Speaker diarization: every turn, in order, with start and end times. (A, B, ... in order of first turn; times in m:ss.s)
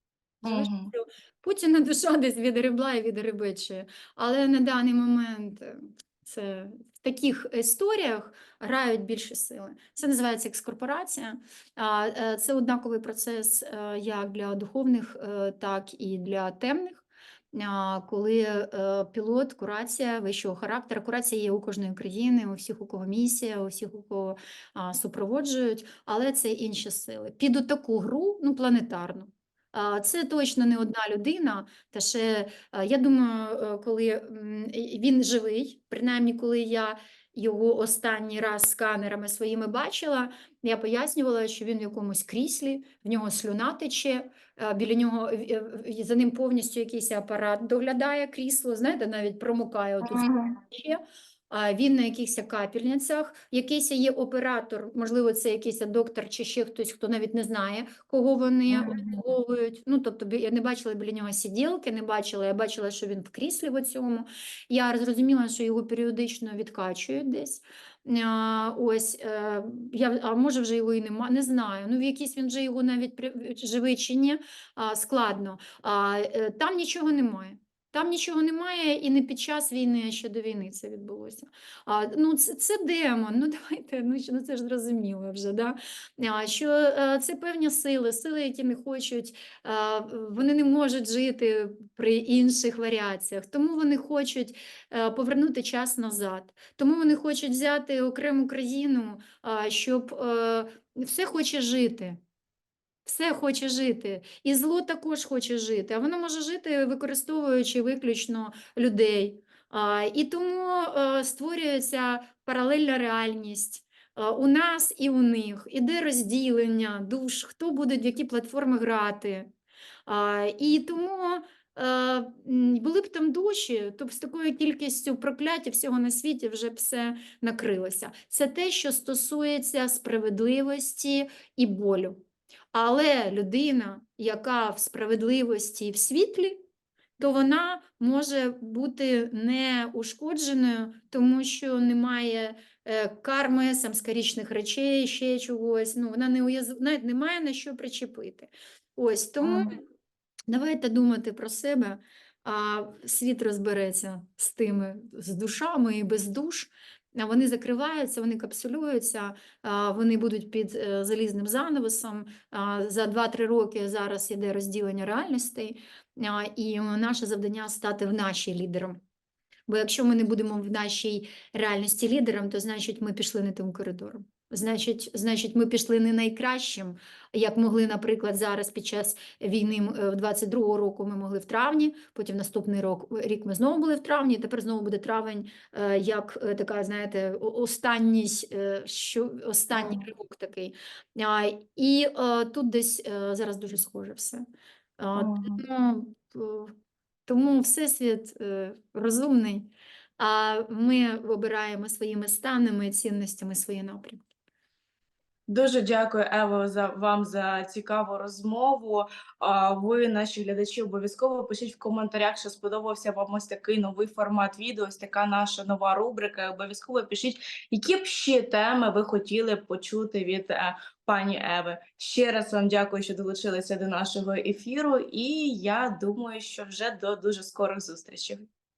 0:00.4-1:42.2 A
0:00.4-0:00.9 B
0:50.0-0:50.6 B
0:58.7-0:59.2 B
1:43.0-1:59.5 A
2:00.0-2:12.2 A
2:12.7-2:16.6 A
2:17.2-2:29.8 A
2:29.4-2:29.8 B
2:30.5-2:49.0 A
2:49.7-3:14.4 A
3:09.7-3:10.0 B
3:15.0-3:16.7 A
3:15.2-3:15.6 B
3:17.3-3:24.2 A
3:25.5-3:48.4 B